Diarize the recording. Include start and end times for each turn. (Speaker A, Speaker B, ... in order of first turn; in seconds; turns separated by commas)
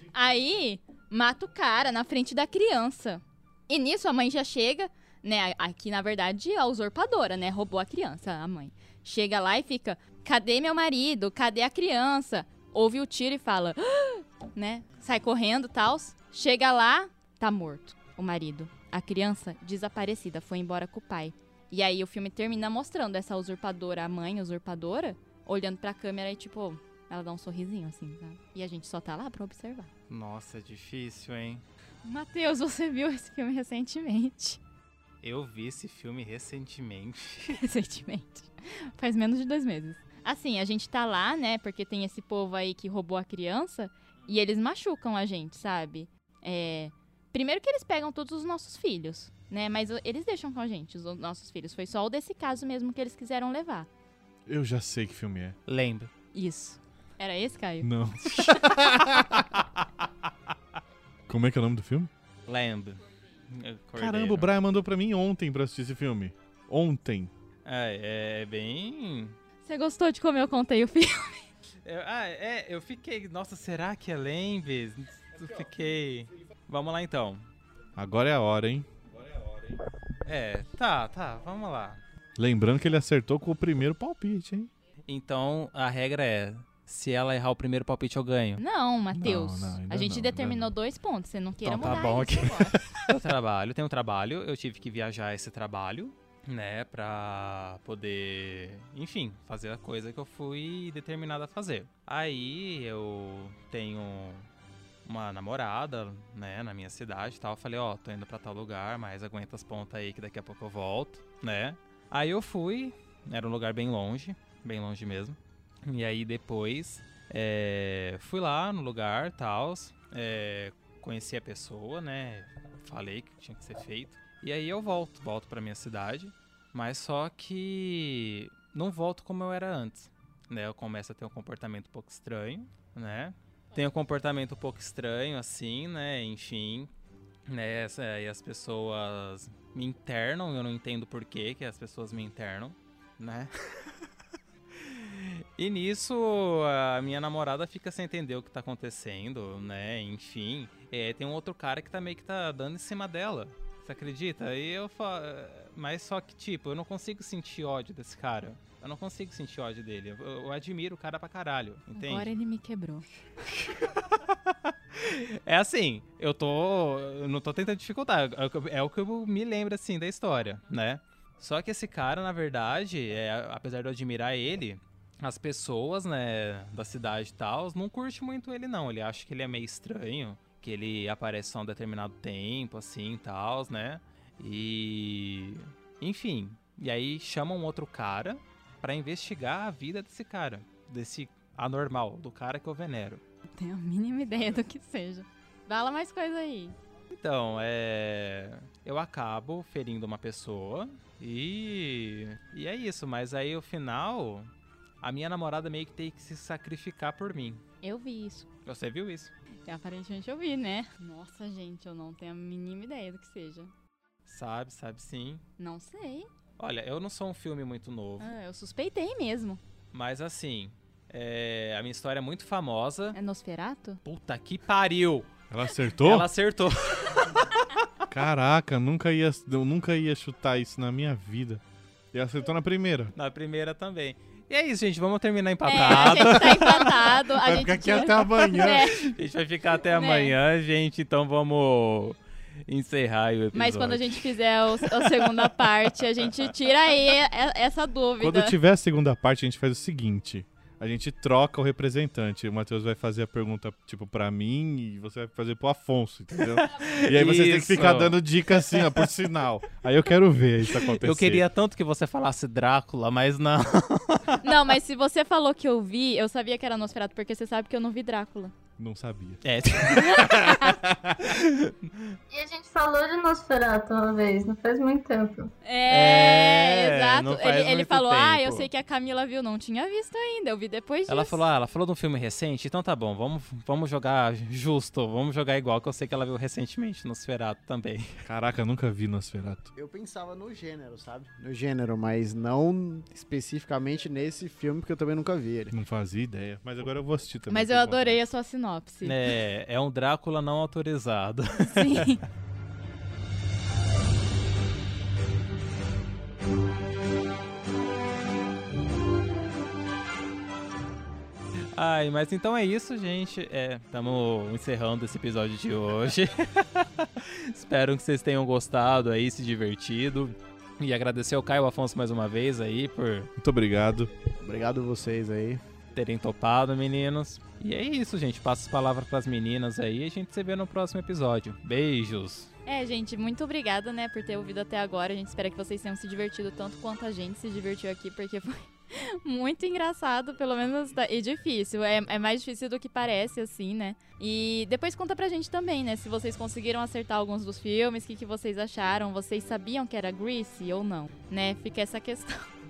Speaker A: 0.1-29.9, Speaker B: 30.1-31.6, Speaker A: 32.0-34.6, Speaker B: 35.2-37.6, Speaker A: 37.5-53.9, Speaker C: 54.5-55.5, Speaker B: 55.7-56.1, Speaker A: 56.3-57.9, Speaker C: 57.8-59.6, Speaker C: 61.3-62.1, Speaker B: 62.5-64.5, Speaker C: 63.9-67.3, Speaker B: 67.6-69.3, Speaker A: 69.6-71.4, Speaker B: 71.8-77.5, Speaker C: 78.0-79.8, Speaker B: 80.2-82.0, Speaker C: 82.3-84.7, Speaker B: 85.1-88.6, Speaker A: 88.6-92.8, Speaker C: 89.1-90.7, Speaker B: 91.6-104.5, Speaker B: 105.0-136.9, Speaker B: 137.5-143.9, Speaker B: 144.8-162.3, Speaker A: 161.9-163.1, Speaker B: 163.5-193.2, Speaker A: 193.6-196.8, Speaker B: 197.1-204.5, Speaker B: 205.0-207.6, Speaker A: 207.8-208.5, Speaker B: 208.6-209.3, Speaker A: 209.7-213.7, Speaker B: 214.2-215.4, Speaker A: 215.6-216.3, Speaker B: 216.6-218.3, Speaker A: 218.2-219.6, Speaker B: 219.9-223.2, Speaker A: 223.1-224.0, Speaker B: 224.0-225.3, Speaker C: 225.5-226.3, Speaker B: 226.0-227.7, Speaker C: 228.1-233.1, Speaker B: 233.1-236.9, Speaker A: 235.6-239.1, Speaker C: 236.1-236.8, Speaker C: 237.3-238.9, Speaker B: 238.6-244.3, Speaker A: 239.9-240.3, Speaker A: 243.5-248.6, Speaker B: 244.8-245.5, Speaker C: 248.2-261.4, Speaker B: 256.4-259.1, Speaker B: 260.6-264.5, Speaker A: 264.4-268.5, Speaker C: 268.8-271.3, Speaker B: 269.4-270.5, Speaker A: 270.1-270.7, Speaker B: 271.2-272.0, Speaker D: 272.3-275.5, Speaker A: 275.6-281.4, Speaker B: 275.9-278.7, Speaker B: 281.1-288.2, Speaker C: 288.2-289.7, Speaker E: 289.8-295.7, Speaker C: 295.7-298.2, Speaker A: 297.5-299.2, Speaker B: 299.0-302.1, Speaker A: 301.7-302.2, Speaker B: 311.7-323.3, Speaker C: 323.4-324.1, Speaker E: 324.4-325.6, Speaker B: 325.9-332.5, Speaker A: 332.6-352.5